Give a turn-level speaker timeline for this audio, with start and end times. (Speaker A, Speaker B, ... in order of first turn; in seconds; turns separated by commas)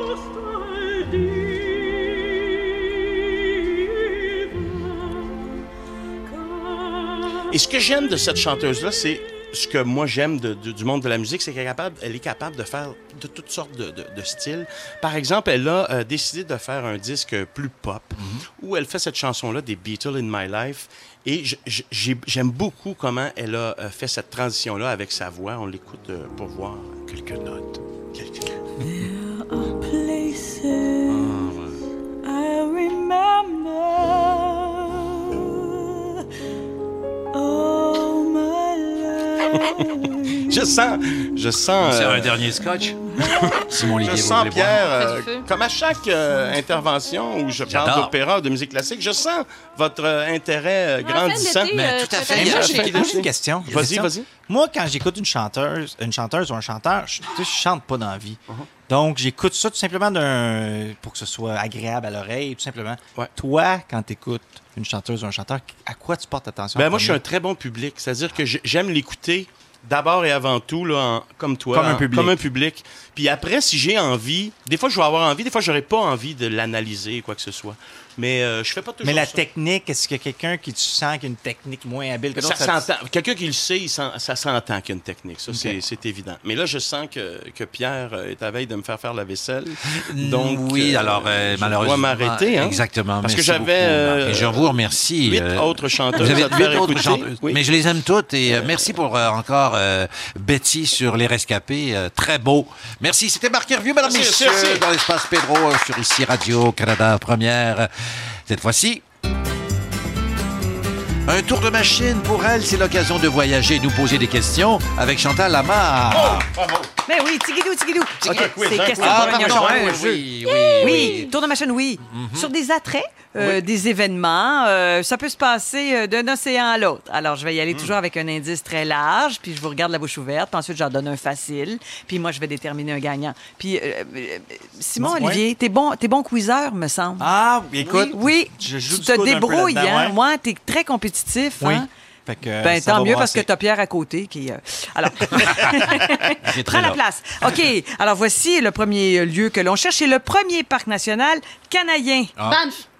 Speaker A: 7.5-27.0, Speaker B: 18.1-18.4, Speaker B: 27.1-28.4, Speaker C: 28.8-31.4, Speaker B: 31.1-31.8, Speaker C: 32.2-35.9, Speaker C: 37.3-40.6, Speaker A: 40.5-42.6, Speaker B: 41.8-43.0, Speaker A: 43.2-51.7, Speaker B: 43.5-44.9, Speaker D: 45.0-45.5, Speaker B: 47.7-48.1, Speaker D: 51.0-53.0, Speaker B: 51.7-53.0, Speaker A: 52.3-54.3, Speaker E: 52.4-67.2, Speaker A: 66.8-79.4, Speaker E: 71.7-72.4, Speaker E: 79.0-82.9, Speaker A: 82.3-97.6, Speaker B: 89.9-107.9, Speaker A: 104.0-104.8, Speaker B: 108.5-109.0, Speaker B: 111.3-116.5, Speaker A: 116.0-116.9, Speaker F: 117.1-137.3, Speaker A: 118.2-120.2, Speaker B: 119.0-121.3, Speaker D: 120.4-121.1, Speaker B: 122.0-122.5, Speaker E: 135.0-135.4, Speaker E: 137.2-140.2, Speaker F: 138.1-141.9, Speaker E: 141.6-143.5, Speaker F: 142.6-152.3, Speaker B: 145.4-145.8, Speaker B: 146.4-147.0, Speaker D: 152.4-152.8